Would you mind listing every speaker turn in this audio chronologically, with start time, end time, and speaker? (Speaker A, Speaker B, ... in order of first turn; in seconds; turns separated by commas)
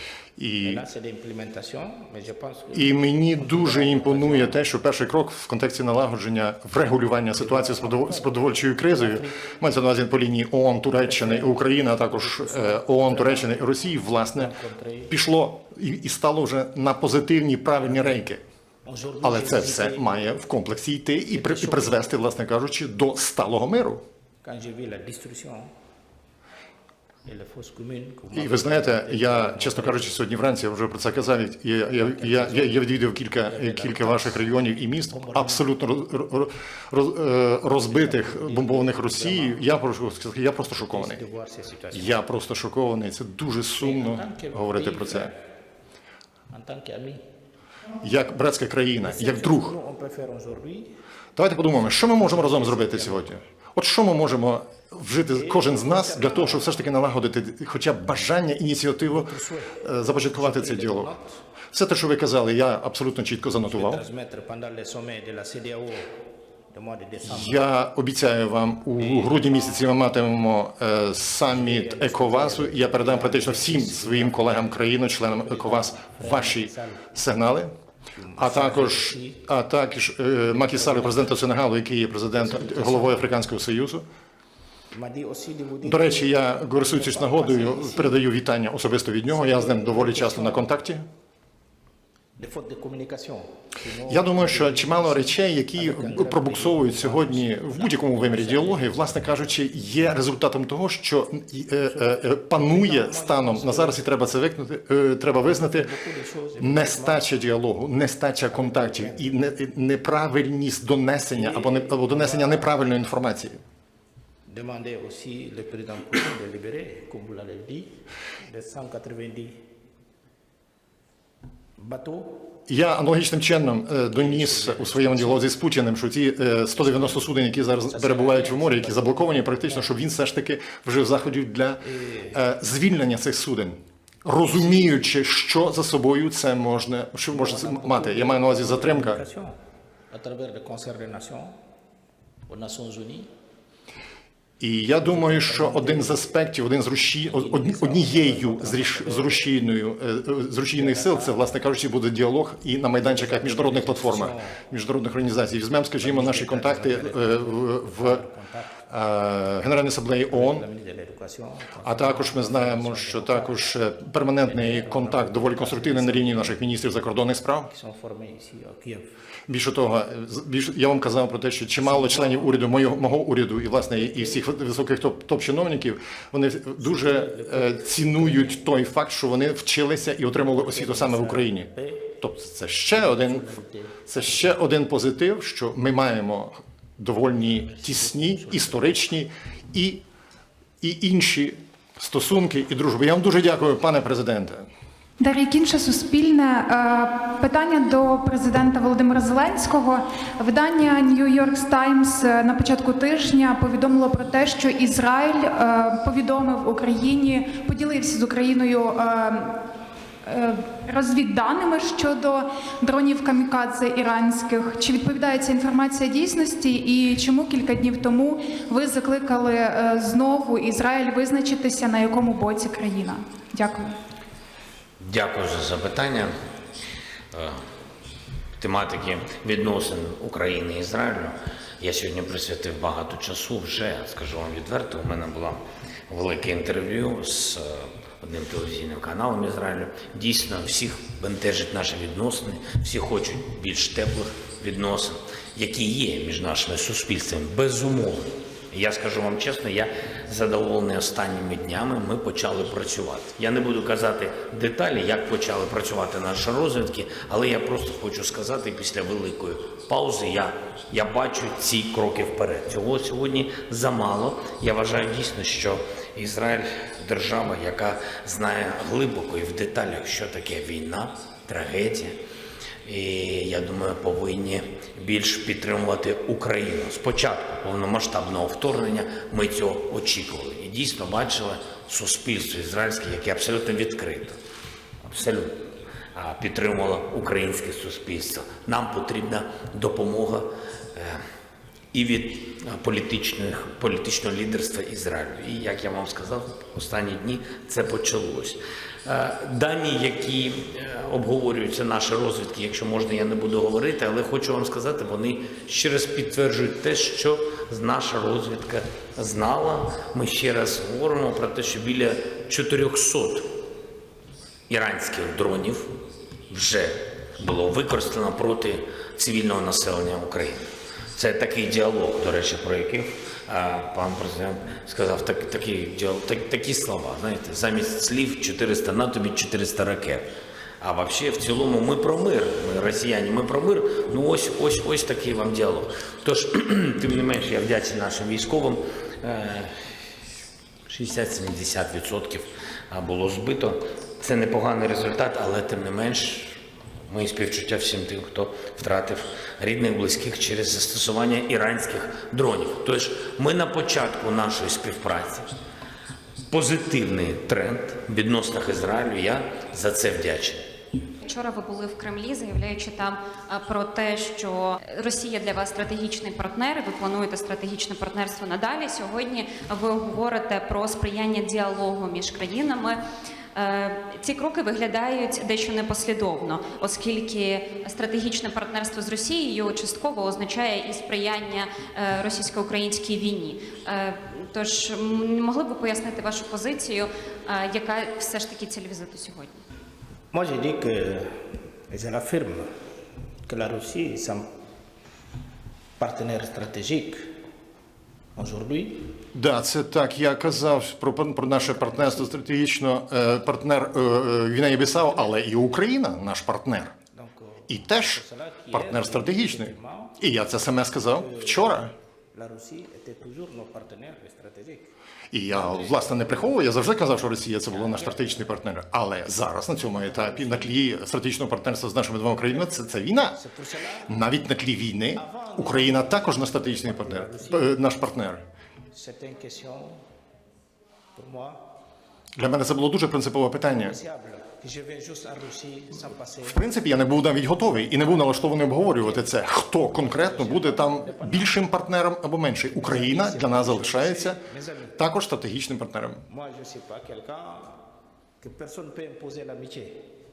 Speaker A: 0.4-0.8, Speaker B: 0.6-4.7, Speaker A: 2.7-14.5, Speaker B: 7.3-9.5, Speaker B: 11.0-13.7, Speaker B: 14.3-15.1, Speaker A: 15.1-18.4, Speaker B: 18.8-20.2, Speaker A: 19.2-24.0, Speaker B: 21.3-22.1, Speaker B: 24.4-25.7, Speaker B: 27.2-30.2, Speaker A: 28.3-41.2, Speaker B: 32.0-32.8, Speaker B: 33.4-34.5, Speaker B: 35.1-35.7, Speaker B: 37.9-39.6, Speaker B: 40.9-42.2, Speaker A: 41.9-45.3, Speaker B: 43.8-45.4, Speaker B: 46.5-47.2, Speaker A: 48.0-49.7, Speaker B: 49.0-50.9, Speaker A: 51.4-61.1, Speaker B: 51.7-53.3, Speaker B: 55.3-56.7, Speaker B: 59.1-61.4, Speaker A: 61.7-64.0, Speaker B: 63.7-66.1, Speaker B: 66.7-67.6, Speaker A: 67.2-77.7, Speaker B: 69.0-69.9, Speaker B: 71.5-77.1, Speaker B: 78.2-79.4, Speaker A: 78.4-84.0, Speaker B: 80.5-81.3, Speaker B: 82.3-83.2, Speaker B: 84.9-88.2, Speaker A: 85.8-91.0, Speaker B: 89.3-90.8, Speaker B: 92.4-99.5, Speaker A: 94.1-105.9, Speaker B: 101.9-104.0, Speaker B: 105.5-107.3, Speaker A: 106.6-113.6, Speaker B: 108.5-109.3, Speaker B: 111.3-112.8, Speaker B: 114.5-119.6, Speaker B: 121.8-122.5, Speaker A: 122.7-139.2, Speaker B: 124.1-125.4, Speaker B: 127.9-129.9, Speaker B: 131.9-132.4, Speaker B: 137.3-139.6, Speaker B: 140.1-141.5, Speaker B: 142.5-143.3, Speaker A: 144.6-158.2, Speaker B: 144.9-146.3, Speaker B: 147.3-149.5, Speaker B: 150.8-151.4, Speaker B: 153.0-154.6, Speaker B: 156.0-158.8, Speaker A: 158.9-160.7, Speaker B: 160.3-163.8, Speaker A: 161.8-167.7, Speaker B: 164.4-166.6, Speaker B: 167.7-169.1, Speaker A: 169.5-181.7, Speaker B: 171.8-172.6, Speaker B: 176.8-178.6, Speaker B: 180.5-182.2, Speaker A: 182.2-183.5, Speaker B: 182.9-184.6, Speaker A: 184.1-190.0, Speaker B: 187.6-189.1, Speaker A: 190.8-194.7, Speaker C: 195.2-209.6, Speaker C: 210.2-223.9, Speaker D: 225.0-226.3, Speaker D: 227.3-227.6, Speaker D: 228.6-272.1, Speaker D: 272.9-284.4, Speaker D: 285.0-285.6, Speaker D: 286.1-291.2, Speaker D: 291.9-313.5, Speaker D: 314.7-315.9, Speaker D: 316.5-330.3, Speaker D: 330.8-339.7, Speaker D: 340.9-355.5, Speaker D: 356.5-360.6, Speaker E: 361.2-373.0, Speaker E: 373.5-389.6, Speaker B: 390.3-391.3, Speaker B: 391.9-392.7, Speaker B: 393.5-394.4, Speaker B: 396.0-397.3, Speaker B: 398.4-399.1, Speaker A: 399.3-406.9, Speaker B: 401.6-402.4, Speaker B: 404.9-405.3, Speaker B: 407.1-410.2, Speaker A: 407.7-411.9, Speaker B: 411.1-411.8, Speaker B: 412.3-414.9, Speaker A: 415.3-423.4, Speaker B: 415.5-416.7, Speaker B: 417.7-418.5, Speaker B: 419.9-420.8, Speaker B: 422.5-424.1, Speaker A: 424.1-428.4, Speaker B: 425.2-427.8, Speaker B: 428.9-430.0, Speaker B: 431.1-431.6, Speaker A: 432.4-434.0, Speaker B: 433.7-436.7, Speaker A: 436.4-444.4, Speaker B: 437.5-441.5, Speaker B: 442.7-444.9, Speaker A: 445.0-446.2, Speaker B: 446.3-447.8, Speaker B: 448.4-450.0